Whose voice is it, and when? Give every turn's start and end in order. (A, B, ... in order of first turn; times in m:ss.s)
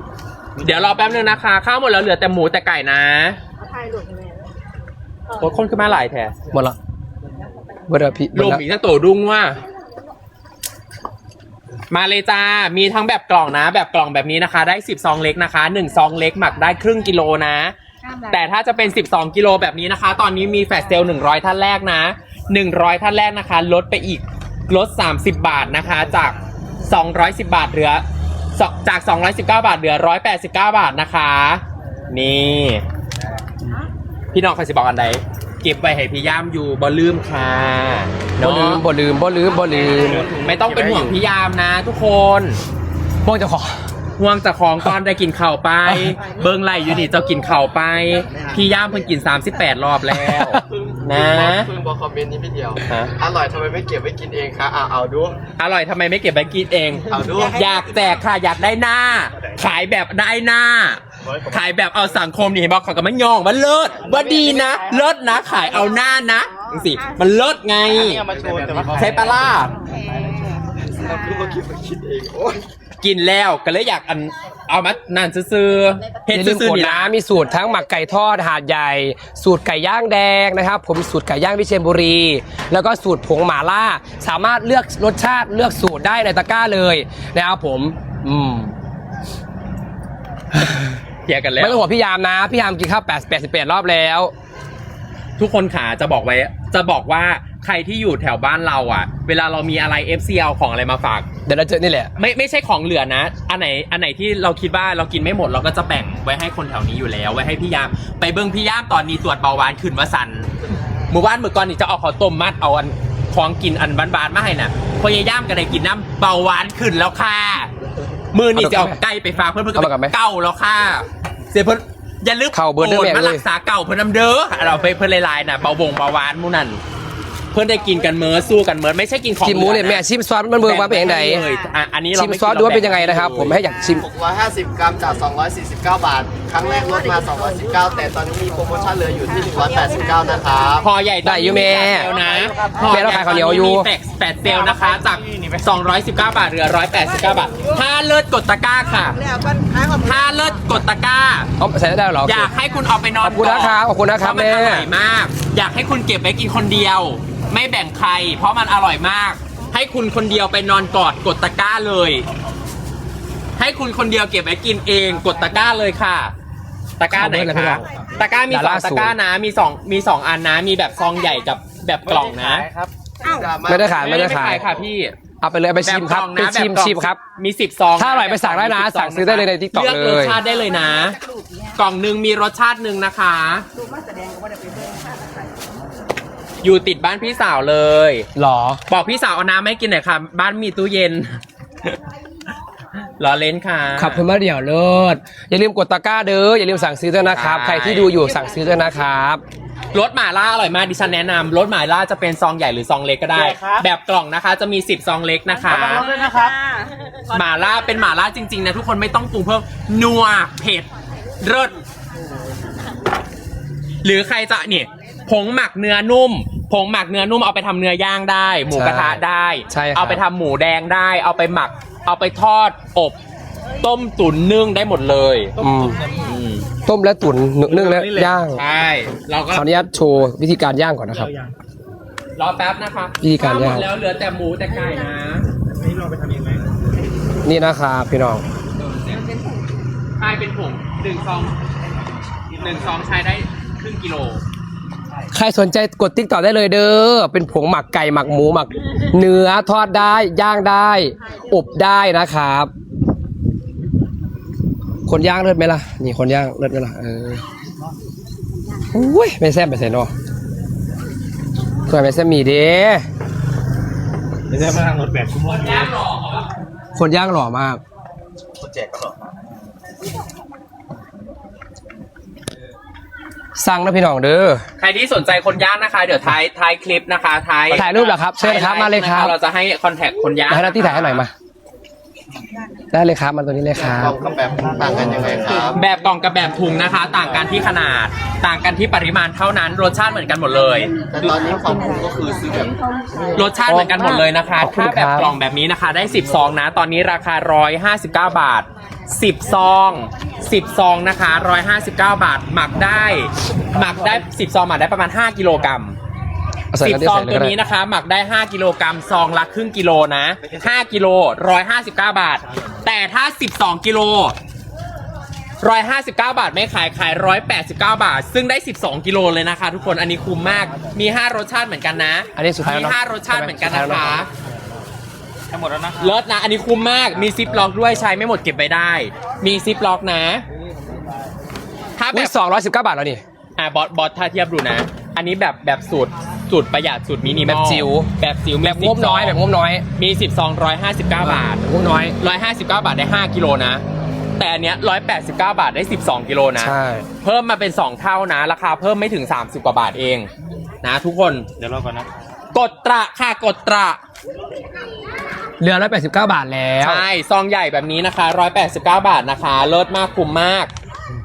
0:00.6-0:03.4 A
0:03.6-0:04.5 B
0:05.4-0:06.4 A
0:06.5-0:06.8 C
0:07.9-0:08.6 C
0:08.4-0:09.6 A
0:11.9-0:17.8 A
0:18.0-0:18.4 B
0:18.3-0:28.0 A
0:28.6-0:32.8 A
0:34.3-0:38.8 A
0:38.4-0:40.3 C
0:39.9-0:41.1 D
0:40.2-0:40.8 E
0:40.4-0:42.6 A
0:43.2-0:43.8 C
0:44.2-0:51.7 A
0:45.9-0:46.2 C
0:50.1-0:50.6 C
0:50.8-0:55.4 E
0:52.9-0:53.1 A
0:55.6-1:08.3 A
0:57.1-0:57.6 E
1:01.2-1:01.7 D
1:04.0-1:05.0 D
1:06.6-1:07.2 B
1:07.9-1:09.4 D
1:08.3-1:09.4 E
1:09.0-1:09.7 A
1:09.7-1:11.4 B
1:11.0-1:12.6 E
1:13.0-1:17.2 A
1:16.3-1:28.8 C
1:30.5-1:31.0 C
1:31.3-1:31.8 A
1:31.6-1:34.3 C
1:35.4-1:41.3 A
1:41.5-1:42.1 C
1:42.2-1:50.5 A
1:51.1-1:57.7 A
1:58.3-2:06.8 A
1:58.6-1:59.0 C
1:59.8-2:00.2 C
2:02.5-2:03.4 C
2:07.5-2:10.0 A
2:09.4-2:11.5 C
2:10.6-2:13.6 A
2:12.1-2:14.1 C
2:13.9-2:20.9 E
2:16.7-2:17.8 B
2:19.2-2:20.8 B
2:20.8-2:29.2 A
2:21.2-2:22.1 C
2:22.0-2:23.0 B
2:22.9-2:23.9 C
2:24.5-2:25.6 D
2:27.5-2:27.8 B
2:29.0-2:30.6 B
2:30.0-2:31.5 A
2:31.6-2:32.5 C
2:32.2-2:42.2 A
2:33.2-2:34.9 C
2:43.6-2:46.3 A
2:47.0-2:52.7 A
2:47.1-2:47.8 C
2:48.5-2:49.2 C
2:52.1-2:52.9 D
2:53.2-2:53.6 B
2:53.2-2:54.9 E
2:53.7-2:54.6 C
2:53.8-2:55.2 A
2:55.4-2:57.2 C
2:55.8-3:01.2 A
2:58.0-3:00.4 C
3:00.4-3:01.7 B
3:01.8-3:03.7 A
3:03.8-3:05.5 B
3:06.6-3:08.3 A
3:08.4-3:08.8 C
3:08.9-3:11.4 A
3:13.2-3:14.2 A
3:14.0-3:19.4 C
3:17.3-3:18.2 A
3:19.9-3:26.1 A
3:23.3-3:23.9 D
3:25.6-3:26.9 B
3:25.7-3:26.6 D
3:27.3-3:30.9 A
3:31.4-3:31.8 A
3:34.0-3:43.2 A
3:38.7-3:40.2 C
3:43.8-3:45.6 A
3:45.6-3:46.4 D
3:45.6-3:46.0 C
3:46.2-3:46.6 A
3:46.9-3:48.6 C
3:47.6-3:48.4 D
3:48.5-3:49.7 A
3:49.5-3:51.3 C
3:51.1-3:51.5 D
3:52.4-3:55.5 A
3:53.2-3:53.9 C
3:55.7-3:56.7 D
3:57.4-3:58.4 C
3:58.8-3:59.2 A
3:59.2-3:59.6 B
4:00.2-4:01.6 A
4:02.6-4:04.4 A
4:05.3-4:12.7 C
4:15.1-4:17.4 C
4:18.9-4:20.1 C
4:21.9-4:23.0 C
4:24.5-4:25.9 D
4:25.5-4:26.5 A
4:27.0-4:27.8 C
4:28.6-4:29.3 D
4:33.6-4:34.6 C
4:34.8-4:41.2 A
4:37.7-4:39.4 C
4:40.5-4:41.3 C
4:42.9-4:44.2 C
4:43.8-4:45.8 E
4:45.7-4:51.4 A
4:51.1-4:52.8 E
4:53.4-5:06.0 A
4:53.7-4:55.3 C
5:06.7-5:07.6 C
5:06.8-5:14.4 A
5:15.6-5:24.3 A
5:22.4-5:24.2 C
5:25.5-5:26.2 D
5:26.0-5:30.4 A
5:32.0-5:32.3 A
5:32.1-5:33.2 C
5:33.6-5:39.4 A
5:37.4-5:38.1 C
5:38.6-5:39.8 C
5:40.0-5:41.6 A
5:41.2-5:42.2 C
5:42.2-5:43.8 A
5:44.4-5:50.3 A
5:46.6-5:47.1 C
5:50.8-5:51.5 A
5:51.6-5:52.1 D
5:52.5-5:54.0 A
5:55.6-5:57.0 C
5:56.8-6:00.7 A